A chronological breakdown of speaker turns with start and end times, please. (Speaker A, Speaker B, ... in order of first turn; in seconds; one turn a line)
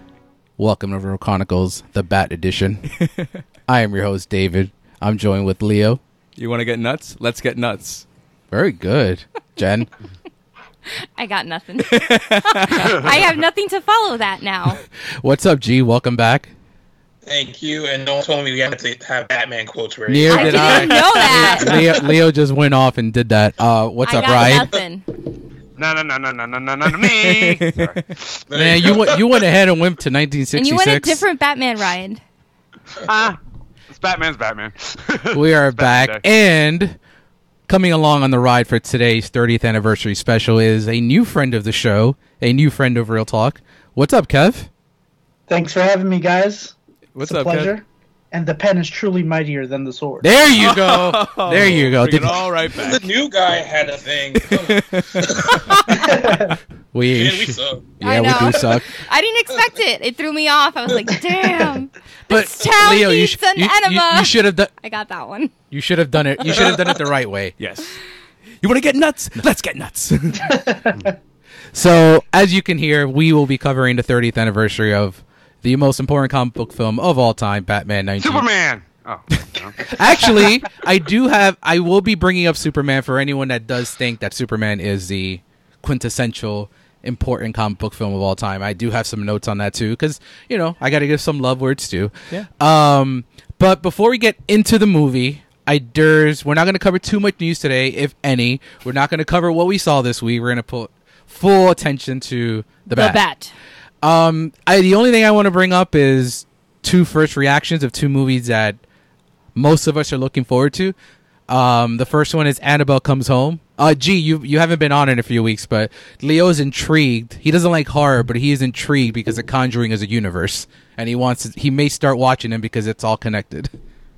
Speaker A: 0.6-2.9
Speaker B: 3.0-3.3
Speaker A: 3.7-6.0
Speaker B: 6.4-8.1
Speaker A: 8.5-9.9
Speaker C: 11.2-14.8
Speaker B: 11.8-13.1
Speaker A: 15.2-16.5
Speaker D: 17.3-21.0
Speaker A: 20.1-24.7
Speaker C: 20.3-21.9
Speaker B: 20.6-21.2
Speaker C: 24.0-25.1
Speaker E: 25.8-28.1
Speaker B: 27.0-28.1
Speaker D: 28.5-29.4
Speaker A: 28.5-31.2
Speaker C: 30.6-32.2
Speaker E: 33.0-33.4
Speaker E: 33.9-36.2
Speaker A: 35.3-37.0
Speaker A: 37.7-44.7
Speaker F: 45.5-50.3
Speaker B: 47.1-47.8
Speaker A: 50.2-52.4
Speaker B: 50.6-53.1
Speaker D: 52.7-55.8
Speaker B: 54.4-56.1
Speaker F: 55.9-56.6
Speaker A: 56.9-58.9
Speaker D: 57.1-57.9
Speaker C: 58.0-65.5
Speaker A: 62.3-64.7
Speaker A: 65.7-67.5
Speaker C: 66.3-66.7
Speaker B: 67.6-68.0
Speaker B: 68.6-70.6
Speaker F: 70.4-71.1
Speaker A: 71.7-78.5
Speaker E: 78.2-80.3
Speaker A: 79.9-103.2
Speaker C: 102.9-103.5
Speaker A: 104.0-108.8
Speaker A: 109.5-111.0
Speaker A: 111.5-123.7